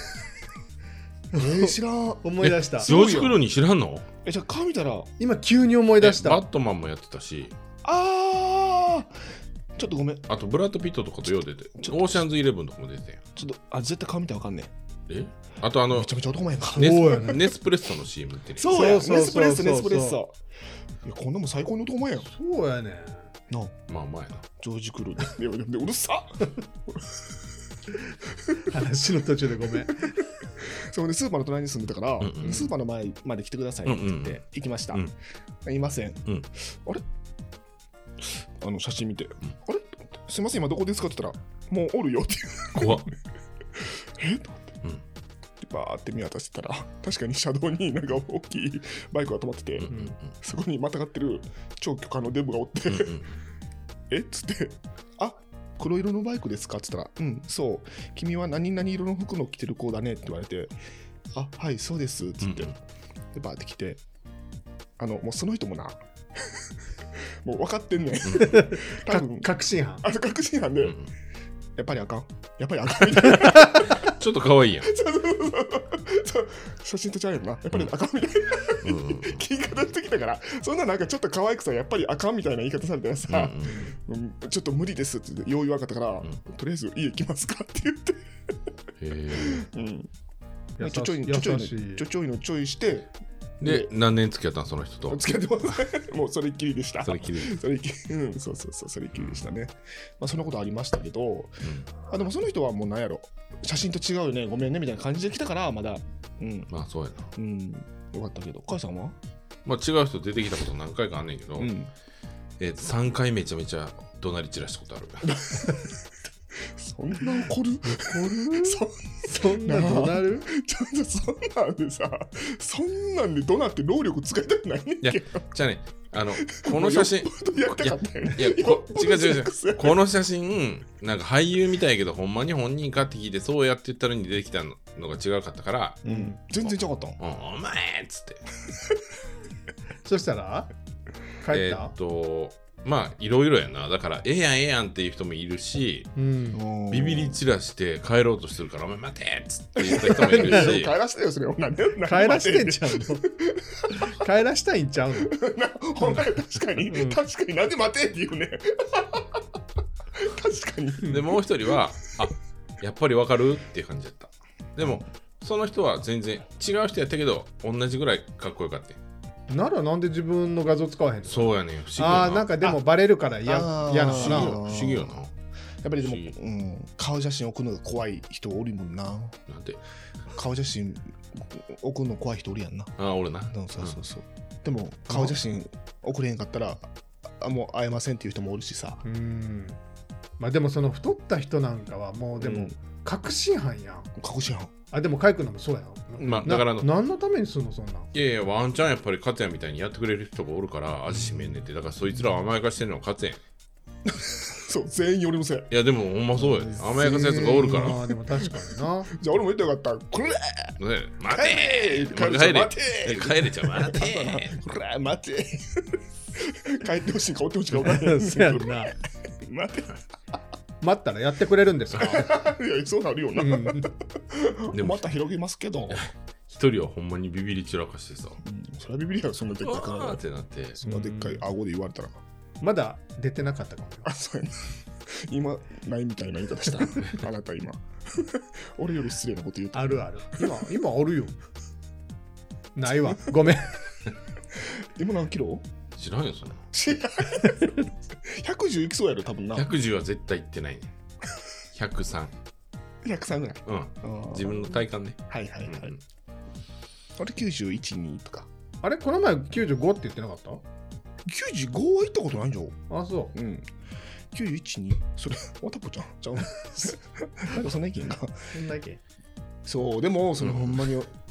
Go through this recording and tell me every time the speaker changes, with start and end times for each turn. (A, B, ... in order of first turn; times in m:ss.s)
0:01.3-0:02.9 A
0:01.4-0:03.4 B
0:02.4-0:04.1 C
0:04.2-0:05.1 B
0:05.2-0:06.4 A
0:06.0-0:07.5 C
0:07.8-0:09.2 B
0:09.8-0:10.3 B
0:10.3-0:13.2 C
0:11.8-0:12.2 B
0:13.4-0:14.7 B
0:15.1-0:16.2 C
0:15.9-0:17.5 B
0:16.7-0:18.8 C
0:16.7-0:17.4 A
0:18.6-0:20.4 B
0:18.7-0:20.2 A
0:21.0-0:22.3 B
0:22.2-0:23.3 A
0:23.5-0:23.8 B
0:23.9-0:24.5 C
0:24.6-0:27.4 B
0:28.6-0:30.2 A
0:30.6-0:35.0 B
0:32.2-0:32.7 C
0:33.8-0:35.1 C
0:35.6-0:37.0 B
0:38.2-0:43.1 B
0:42.7-0:43.1 C
0:43.8-0:44.8 B
0:45.6-0:53.2 B
0:49.8-0:50.3 C
0:52.9-0:53.4 C
0:54.1-1:00.7 B
1:01.3-1:02.7 B
1:02.4-1:02.8 C
1:03.3-1:04.0 B
1:05.0-1:11.0 B
1:08.3-1:08.6 C
1:08.3-1:10.0 A
1:10.8-1:11.1 C
1:11.8-1:14.1 B
1:13.3-1:14.1 A
1:13.9-1:14.9 C
1:14.8-1:28.6 B
1:18.8-1:19.4 C
1:23.3-1:23.8 C
1:29.0-1:29.7 C
1:29.3-1:30.1 B
1:30.8-1:32.0 A
1:30.8-1:33.1 B
1:33.6-1:35.2 C
1:33.6-1:33.9 B
1:35.1-1:46.7 B
1:37.0-1:37.6 C
1:39.1-1:39.5 C
1:41.6-1:41.9 C
1:46.7-1:47.3 C
1:47.4-1:49.2 B
1:49.6-1:51.7 C
1:51.6-1:51.9 B
1:52.6-1:55.4 C
1:55.2-1:55.9 B
1:56.6-2:05.4 B
1:57.8-2:00.5 A
2:05.0-2:16.0 C
2:06.4-2:10.0 B
2:16.0-2:17.2 B
2:16.1-2:16.4 A
2:17.2-2:18.4 C
2:20.0-2:20.7 A
2:21.4-2:21.9 A
2:21.5-2:26.1 C
2:26.2-2:26.6 A
2:26.5-2:27.4 B
2:26.9-2:30.9 C
2:29.8-2:34.1 B
2:29.9-2:30.8 A
2:32.0-2:33.3 A
2:33.9-2:35.4 A
2:35.2-2:39.4 B
2:36.0-2:37.2 A
2:40.1-2:41.8 B
2:41.0-2:49.0 C
2:49.5-2:54.6 A
2:51.3-2:52.5 C
2:53.4-2:55.2 B
2:54.1-2:55.3 C
2:55.8-2:59.4 B
2:56.0-2:56.3 C
2:59.5-2:59.8 C
3:00.3-3:02.9 B
3:03.0-3:04.0 C
3:03.5-3:09.0 B
3:09.0-3:09.8 A
3:10.4-3:14.1 A
3:12.4-3:12.7 B
3:14.2-3:14.7 B
3:14.9-3:18.1 A
3:16.2-3:16.6 B
3:16.2-3:16.9 C
3:18.1-3:23.4 C
3:21.1-3:21.6 B
3:24.1-3:25.7 B
3:25.7-3:28.0 C
3:26.4-3:30.8 B
3:27.6-3:29.1 A
3:30.8-3:34.6 C
3:31.3-3:40.0 B
3:37.7-3:38.9 A
3:40.8-3:42.4 A
3:42.0-3:46.0 B
3:43.4-3:43.9 A
3:44.7-3:45.1 C
3:45.9-3:48.4 C
3:48.4-3:50.2 B
3:49.6-3:50.8 C
3:50.8-3:52.2 B
3:50.8-3:51.4 A
3:52.6-3:54.1 A
3:54.0-4:00.6 B
3:56.9-3:57.2 C
3:59.7-4:01.4 A
4:02.8-4:03.8 A
4:04.5-4:05.6 B
4:06.0-4:06.7 C
4:06.7-4:09.7 B
4:07.4-4:07.9 A
4:09.6-4:10.9 C
4:11.7-4:12.3 C
4:13.0-4:14.8 B
4:13.7-4:16.0 C
4:15.3-4:16.0 B
4:17.2-4:18.5 B
4:18.8-4:20.6 A
4:21.2-4:22.8 B
4:22.9-4:23.3 A
4:23.3-4:23.7 B
4:24.3-4:28.5 B
4:28.5-4:29.0 A
4:29.6-4:31.1 B
4:30.4-4:30.8 C